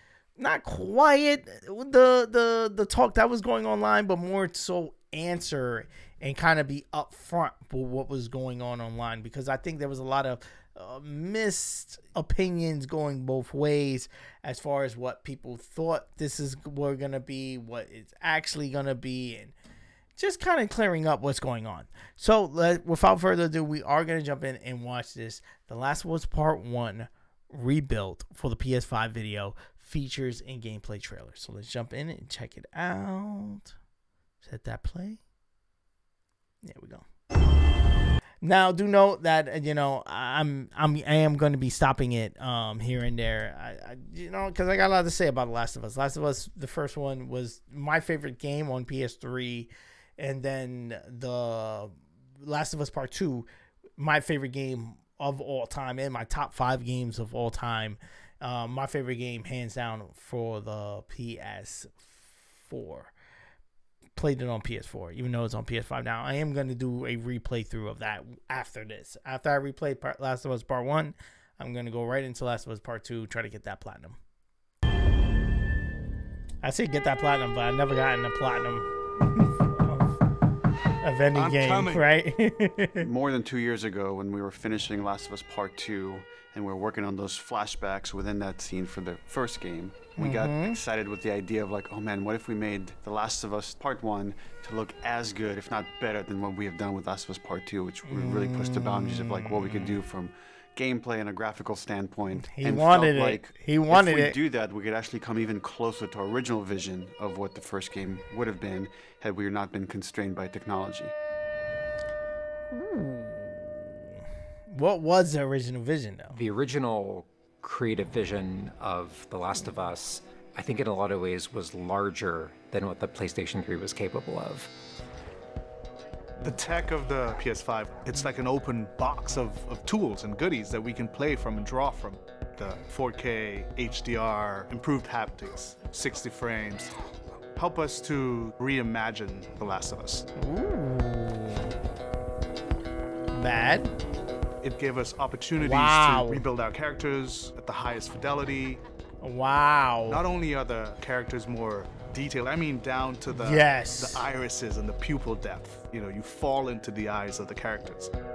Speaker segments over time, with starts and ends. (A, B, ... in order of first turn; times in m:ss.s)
0:00.4-0:19.5 A
0:20.2-0:33.7 A
0:34.4-0:35.2 A
0:36.6-0:37.0 A
0:38.4-1:03.1 A
1:04.2-1:14.2 A
1:16.6-1:20.2 A
1:21.0-1:23.0 A
1:21.3-1:22.0 B
1:23.0-1:51.1 C
1:30.2-1:30.8 A
1:38.1-1:40.0 A
1:42.4-1:44.4 A
1:52.7-1:54.1 A
1:54.7-1:56.4 A
1:56.3-2:04.7 D
2:06.4-2:16.9 B
2:17.5-2:20.2 B
2:20.4-2:21.7 A
2:23.3-2:23.9 A
2:24.6-2:28.8 B
2:25.6-2:26.4 A
2:29.2-2:30.2 A
2:30.0-2:38.1 B
2:33.3-2:34.2 A